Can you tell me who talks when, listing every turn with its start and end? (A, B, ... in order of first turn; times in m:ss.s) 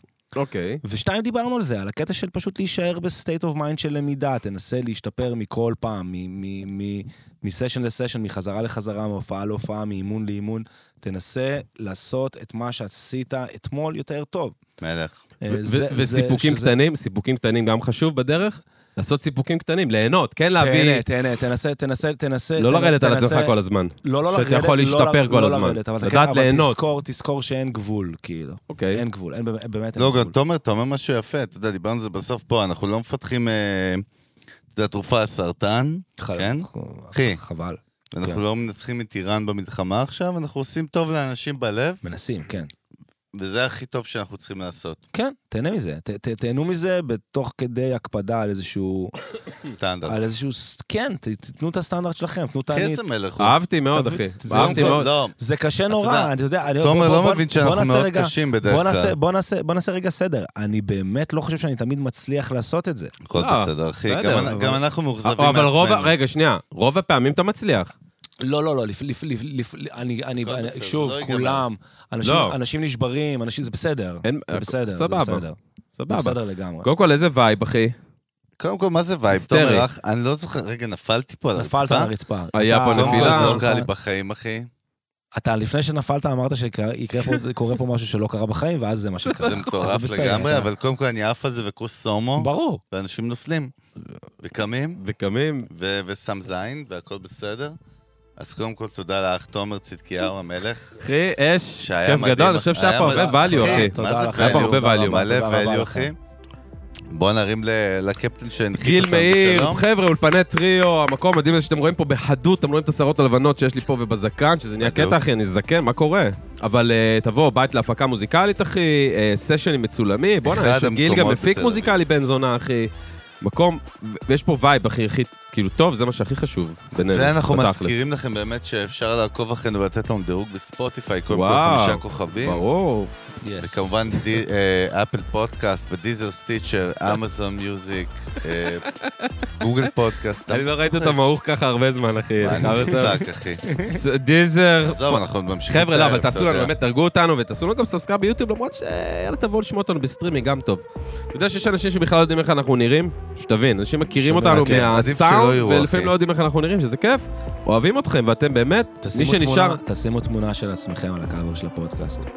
0:00.3-0:00.8 A
0:00.8-0:14.6 B
0:14.8-0:15.2 C
0:15.4-0:16.7 B
0:15.5-0:21.0 A
0:20.6-0:30.3 B
0:22.6-0:26.9 A
0:28.7-0:29.0 A
0:30.0-0:34.0 C
0:34.7-0:37.4 C
0:36.2-0:38.4 B
0:38.1-0:42.0 C
0:42.0-0:42.7 B
0:43.3-0:45.0 C
0:45.1-0:49.1 B
0:49.6-0:50.2 C
0:50.0-0:53.0 B
0:52.7-0:53.6 C
0:53.4-0:55.1 A
0:53.9-1:03.1 B
0:54.5-0:55.3 C
0:55.9-0:59.1 C
1:03.2-1:06.1 C
1:03.3-1:04.6 A
1:04.5-1:04.8 B
1:05.2-1:07.9 A
1:08.4-1:15.6 B
1:10.4-1:11.6 C
1:12.2-1:12.6 A
1:14.2-1:15.4 A
1:16.0-1:18.0 A
1:16.1-1:16.9 B
1:18.6-1:22.1 C
1:19.3-1:19.8 A
1:21.5-1:23.9 B
1:22.5-1:23.6 A
1:22.9-1:24.7 C
1:25.3-1:30.7 B
1:29.2-1:29.6 A
1:29.4-1:33.7 C
1:32.4-1:32.8 B
1:34.4-1:35.0 C
1:35.0-1:35.7 A
1:35.7-1:37.8 C
1:38.4-1:41.2 C
1:41.0-1:45.3 A
1:41.8-1:46.2 C
1:43.0-1:46.1 B
1:47.1-1:49.8 C
1:48.8-2:02.9 A
1:54.8-1:55.2 C
2:00.4-2:01.9 C
2:03.4-2:08.0 A
2:07.0-2:12.6 C
2:11.3-2:13.1 A
2:13.4-2:14.2 B
2:13.6-2:18.9 C
2:18.6-2:19.5 A
2:19.6-2:21.2 C
2:20.5-2:23.2 A
2:22.4-2:23.6 C
2:22.4-2:24.0 B
2:23.8-2:39.8 A
2:24.8-2:26.7 C
2:34.1-2:34.9 B
2:34.6-2:36.1 C
2:39.0-2:42.3 B